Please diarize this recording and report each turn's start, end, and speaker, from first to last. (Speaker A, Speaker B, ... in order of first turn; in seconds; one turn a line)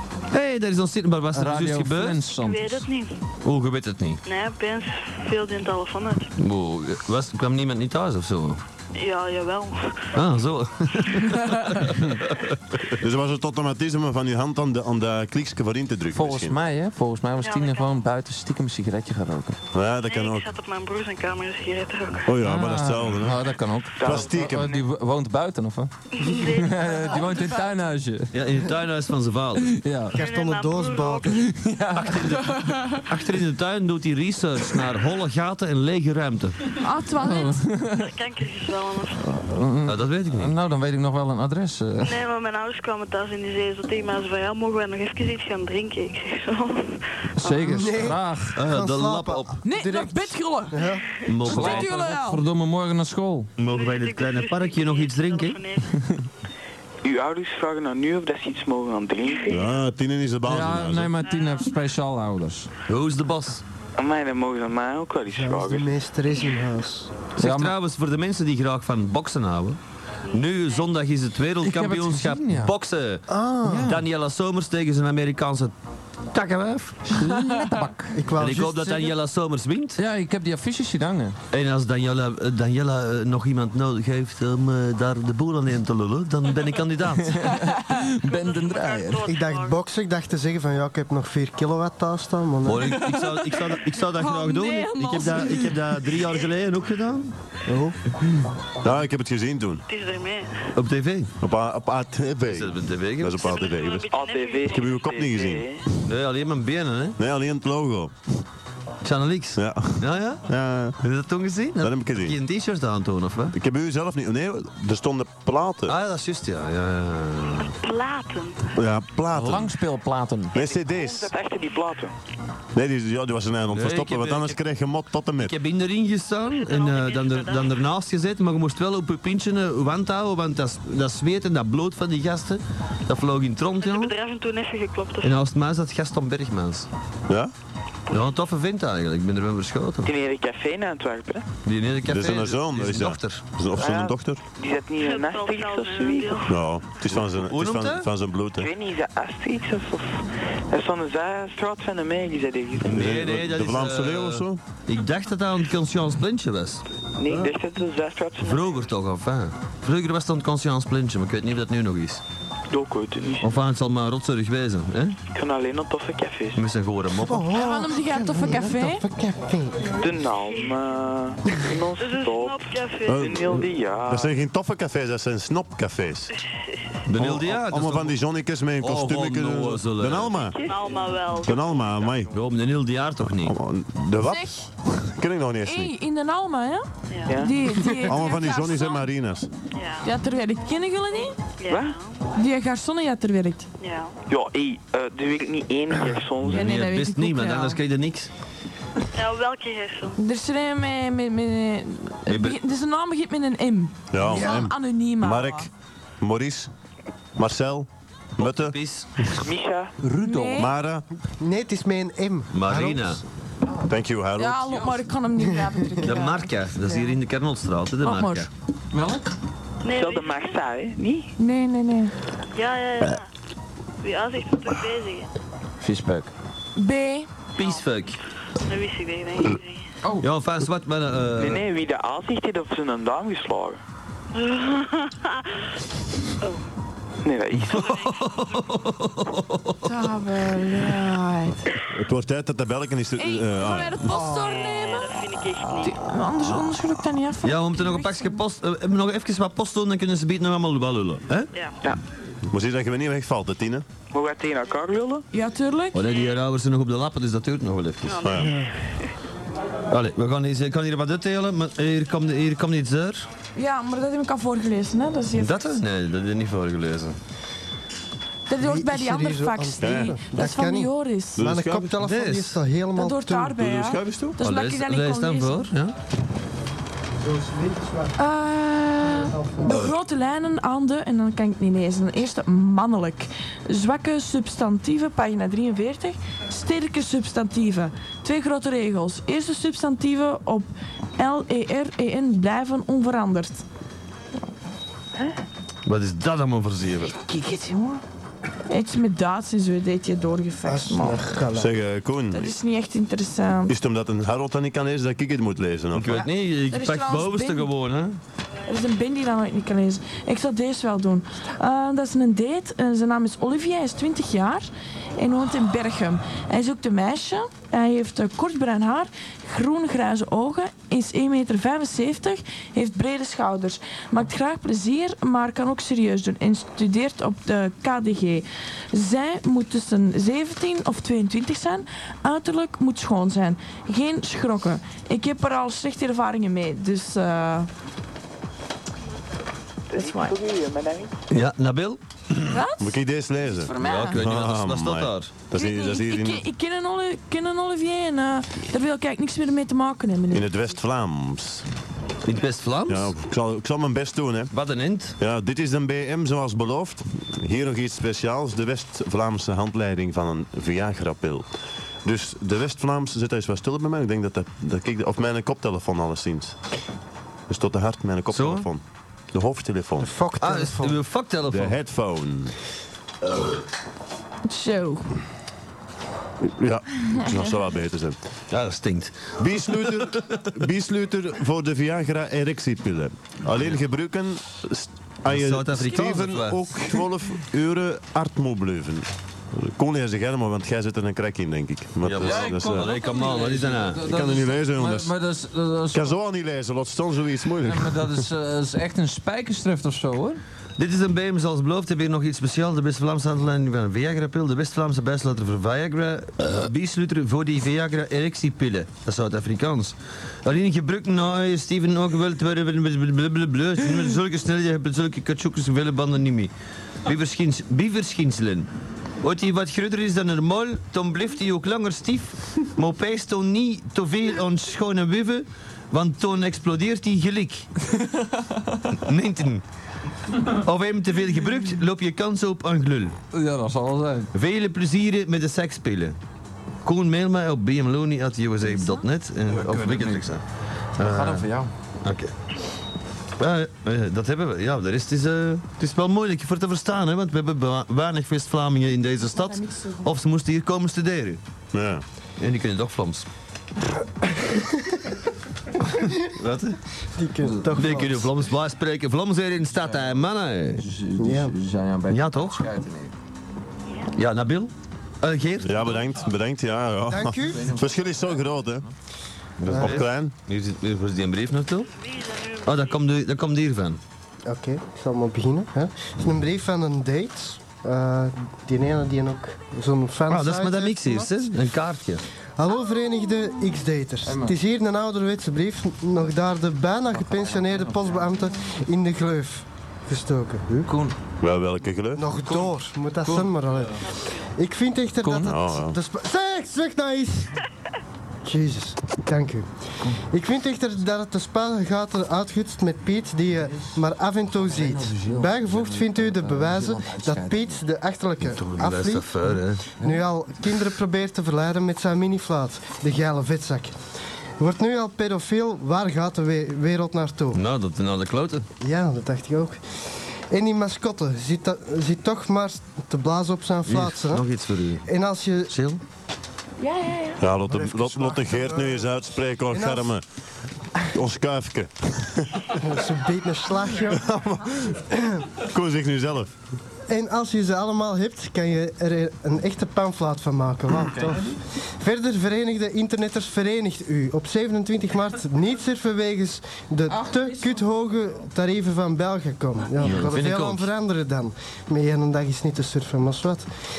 Speaker A: 0.3-2.2
Speaker B: 1.3-2.9
Speaker C: 2.3-3.1
Speaker A: 3.4-4.2
Speaker C: 4.2-6.3
Speaker A: 6.4-8.6
Speaker C: 9.0-10.2
Speaker A: 10.1-12.9
Speaker D: 13.0-16.6
Speaker B: 16.1-19.6
Speaker C: 17.4-17.9
Speaker D: 19.7-20.5
Speaker C: 20.1-22.3
Speaker D: 22.2-23.4
Speaker B: 22.4-28.4
Speaker E: 24.0-24.8
Speaker D: 24.0-24.7
Speaker C: 26.1-27.7
Speaker A: 28.3-29.8
Speaker B: 29.6-30.2
Speaker F: 30.1-31.4
Speaker C: 30.2-31.4
Speaker B: 31.4-32.2
Speaker A: 31.9-36.7
Speaker G: 36.7-37.6
Speaker B: 37.2-38.0
Speaker C: 37.8-39.2
Speaker B: 39.2-42.1
Speaker A: 39.9-40.5
Speaker C: 42.0-47.0
Speaker B: 47.4-48.6
Speaker F: 47.5-51.0
Speaker A: 48.5-49.6
Speaker G: 49.6-52.4
Speaker A: 51.3-52.0
Speaker B: 51.5-53.5
Speaker A: 53.6-55.6
Speaker C: 53.7-56.0
Speaker E: 57.0-59.6
Speaker C: 59.2-59.7
Speaker D: 59.5-61.1
Speaker B: 60.5-62.7
Speaker C: 61.2-61.7
Speaker A: 62.9-63.6
Speaker E: 64.0-65.9
Speaker F: 65.3-67.2
Speaker A: 67.4-69.8
Speaker B: 67.4-67.7
Speaker C: 70.3-70.9
Speaker A: 70.3-73.3
Speaker B: 71.6-72.7
Speaker F: 73.3-74.0
Speaker B: 73.6-74.0
Speaker A: 73.8-75.7
Speaker A: 76.3-77.1
Speaker B: 77.2-78.2
Speaker G: 77.2-77.8
Speaker F: 78.1-79.2
Speaker A: 78.4-80.0
Speaker B: 80.0-81.4
Speaker A: 81.5-87.4
Speaker B: 87.2-89.3
Speaker G: 87.5-87.9
Speaker C: 88.1-89.8
Speaker F: 89.3-93.1
Speaker A: 92.6-97.3
Speaker G: 94.0-96.1
Speaker F: 97.7-98.0
Speaker D: 98.8-99.8
Speaker C: 99.9-100.7
Speaker A: 100.8-101.3
Speaker D: 101.4-104.1
Speaker A: 102.5-103.7
Speaker C: 103.4-105.1
Speaker E: 104.1-105.8
Speaker D: 104.7-105.8
Speaker A: 106.1-107.2
Speaker D: 107.2-108.2
Speaker A: 109.0-110.4
Speaker D: 109.6-111.0
Speaker A: 111.0-113.6
Speaker D: 111.8-112.4
Speaker D: 113.5-116.0
Speaker A: 115.9-117.8
Speaker C: 117.6-118.7
Speaker D: 118.8-119.7
Speaker B: 119.3-120.5
Speaker E: 120.5-122.1
Speaker D: 120.5-121.3
Speaker D: 122.7-125.5
Speaker A: 123.7-124.6
Speaker A: 125.4-134.1
Speaker C: 126.5-127.8
Speaker C: 133.8-135.4
Speaker A: 135.2-136.9
Speaker A: 138.1-140.1
Speaker E: 140.1-141.5
Speaker A: 141.7-143.4
Speaker D: 142.1-144.4
Speaker E: 143.8-146.5
Speaker C: 145.0-146.6
Speaker D: 146.5-148.7
Speaker A: 147.4-148.1
Speaker E: 148.6-153.0
Speaker A: 152.8-157.6
Speaker D: 152.8-154.6
Speaker E: 157.2-158.9
Speaker A: 158.4-162.2
Speaker E: 162.7-163.5
Speaker A: 163.4-165.2
Speaker E: 165.3-166.6
Speaker A: 166.6-167.5
Speaker F: 167.2-170.0
Speaker G: 167.5-169.1
Speaker E: 169.9-174.3
Speaker C: 172.0-173.6
Speaker D: 173.1-176.3
Speaker C: 176.3-176.9
Speaker A: 177.1-178.2
Speaker D: 177.2-180.6
Speaker A: 178.8-180.5
Speaker C: 180.6-182.2
Speaker D: 181.4-182.3
Speaker A: 182.3-183.6
Speaker D: 183.2-185.9
Speaker G: 184.2-184.7
Speaker G: 185.6-189.1
Speaker E: 187.3-187.6
Speaker D: 188.0-189.5
Speaker C: 189.7-190.1
Speaker G: 190.0-191.4
Speaker C: 191.6-192.2
Speaker E: 191.7-192.0
Speaker G: 192.4-193.7
Speaker C: 193.8-194.2
Speaker E: 194.3-196.7
Speaker A: 196.4-198.3
Speaker G: 196.5-197.8
Speaker C: 199.1-200.2
Speaker G: 200.2-205.7
Speaker A: 202.3-202.6
Speaker D: 204.1-206.7
Speaker F: 204.4-204.7
Speaker D: 207.4-209.4
Speaker A: 208.4-209.1
Speaker E: 209.3-209.9
Speaker B: 210.0-210.7
Speaker G: 210.2-210.8
Speaker D: 210.6-211.1
Speaker F: 211.4-213.2
Speaker A: 212.5-213.2
Speaker D: 213.9-215.0
Speaker G: 214.4-217.2
Speaker A: 216.0-218.5
Speaker G: 218.0-218.5
Speaker B: 218.9-219.3
Speaker C: 219.8-220.6
Speaker E: 219.9-221.3
Speaker G: 221.4-222.1
Speaker C: 222.6-223.3
Speaker C: 224.0-225.3
Speaker B: 225.8-226.3
Speaker G: 226.8-227.3
Speaker A: 227.6-228.2
Speaker C: 228.6-229.9
Speaker A: 230.2-231.6
Speaker E: 231.4-233.8
Speaker C: 234.3-235.6
Speaker E: 237.2-238.0
Speaker A: 237.6-240.1
Speaker C: 237.8-238.8
Speaker G: 239.8-241.7
Speaker D: 241.9-244.1
Speaker G: 243.2-248.4
Speaker C: 244.2-246.1
Speaker A: 247.4-251.5
Speaker D: 252.5-253.8
Speaker E: 254.1-255.3
Speaker G: 255.3-256.0
Speaker A: 255.9-258.3
Speaker C: 258.1-258.9
Speaker D: 258.2-258.5
Speaker F: 258.4-258.7
Speaker A: 259.9-263.3
Speaker G: 263.6-265.6
Speaker A: 265.4-267.2
Speaker G: 268.5-271.5
Speaker F: 268.6-273.6
Speaker D: 269.8-270.2
Speaker D: 271.4-272.0
Speaker A: 272.0-272.6
Speaker G: 272.9-275.7
Speaker D: 273.6-274.4
Speaker A: 274.4-275.9
Speaker F: 277.2-278.1
Speaker G: 278.2-293.6
Speaker F: 279.1-279.8
Speaker A: 295.9-297.2
Speaker G: 297.2-298.0
Speaker G: 298.7-301.4
Speaker F: 300.7-301.8
Speaker D: 301.5-302.6
Speaker G: 302.3-303.8
Speaker D: 303.7-306.2
Speaker A: 305.9-308.2
Speaker G: 306.6-307.7
Speaker G: 308.7-337.7
Speaker E: 339.9-341.1
Speaker G: 339.9-340.4
Speaker A: 341.3-342.6
Speaker G: 342.5-342.9
Speaker D: 342.8-346.5
Speaker G: 343.5-344.2
Speaker A: 343.8-345.4
Speaker G: 345.5-350.5
Speaker D: 350.3-351.7
Speaker A: 352.2-353.1
Speaker D: 352.9-354.5
Speaker A: 354.5-355.2
Speaker D: 355.2-361.5
Speaker D: 362.1-366.6
Speaker D: 367.5-368.8
Speaker A: 368.3-368.7
Speaker D: 369.3-370.1
Speaker F: 370.0-371.0
Speaker A: 370.4-371.8
Speaker D: 371.5-372.5
Speaker G: 374.5-375.1
Speaker D: 376.4-378.2
Speaker A: 378.5-380.4
Speaker D: 379.4-392.9
Speaker A: 385.3-386.7
Speaker A: 392.0-394.1
Speaker B: 392.2-396.1
Speaker D: 394.1-395.1
Speaker D: 395.9-398.3
Speaker B: 397.7-400.4
Speaker A: 400.8-416.5
Speaker A: 417.1-418.7
Speaker A: 419.2-427.7
Speaker B: 427.9-428.8
Speaker A: 428.9-429.6
Speaker A: 430.5-433.2
Speaker B: 433.3-434.3
Speaker A: 434.3-436.2
Speaker A: 436.9-440.4
Speaker G: 438.7-439.0
Speaker B: 439.5-440.2
Speaker A: 441.0-441.5
Speaker B: 441.0-441.7
Speaker A: 442.0-442.3
Speaker A: 443.4-451.4
Speaker G: 449.3-450.1
Speaker D: 451.7-452.0
Speaker A: 452.4-453.3
Speaker F: 454.3-454.9
Speaker A: 456.4-456.8
Speaker F: 457.1-458.4
Speaker B: 457.4-457.8
Speaker A: 457.7-460.8
Speaker B: 459.8-460.2
Speaker B: 460.8-463.1
Speaker F: 461.2-461.6
Speaker A: 462.1-462.7
Speaker A: 464.1-466.0
Speaker D: 465.6-468.9
Speaker F: 467.1-467.6
Speaker B: 467.5-468.6
Speaker A: 469.6-471.9
Speaker D: 469.7-470.3
Speaker C: 471.9-473.0
Speaker A: 472.6-474.0
Speaker F: 474.5-481.5
Speaker A: 480.3-482.2
Speaker F: 482.6-490.9
Speaker B: 484.2-484.6
Speaker B: 487.1-488.4
Speaker B: 490.9-491.2
Speaker D: 491.4-492.2
Speaker F: 492.2-494.0
Speaker B: 492.4-493.9
Speaker F: 494.6-497.5
Speaker B: 495.2-495.6
Speaker D: 495.5-496.0
Speaker F: 498.4-499.7
Speaker F: 500.3-509.4
Speaker B: 503.5-507.8
Speaker A: 508.4-509.9
Speaker F: 510.0-513.9
Speaker F: 514.6-517.6
Speaker A: 517.5-518.7
Speaker F: 518.8-524.5
Speaker A: 523.9-525.1
Speaker F: 525.0-525.7
Speaker A: 525.7-526.0
Speaker G: 526.8-527.4
Speaker D: 527.4-530.2
Speaker F: 527.7-529.1
Speaker F: 529.7-530.1
Speaker D: 531.1-532.8
Speaker F: 532.8-534.4
Speaker D: 534.1-535.0
Speaker F: 535.0-535.5
Speaker D: 535.6-536.5
Speaker F: 537.1-553.7
Speaker B: 541.1-541.6
Speaker B: 547.1-547.8
Speaker A: 550.0-550.9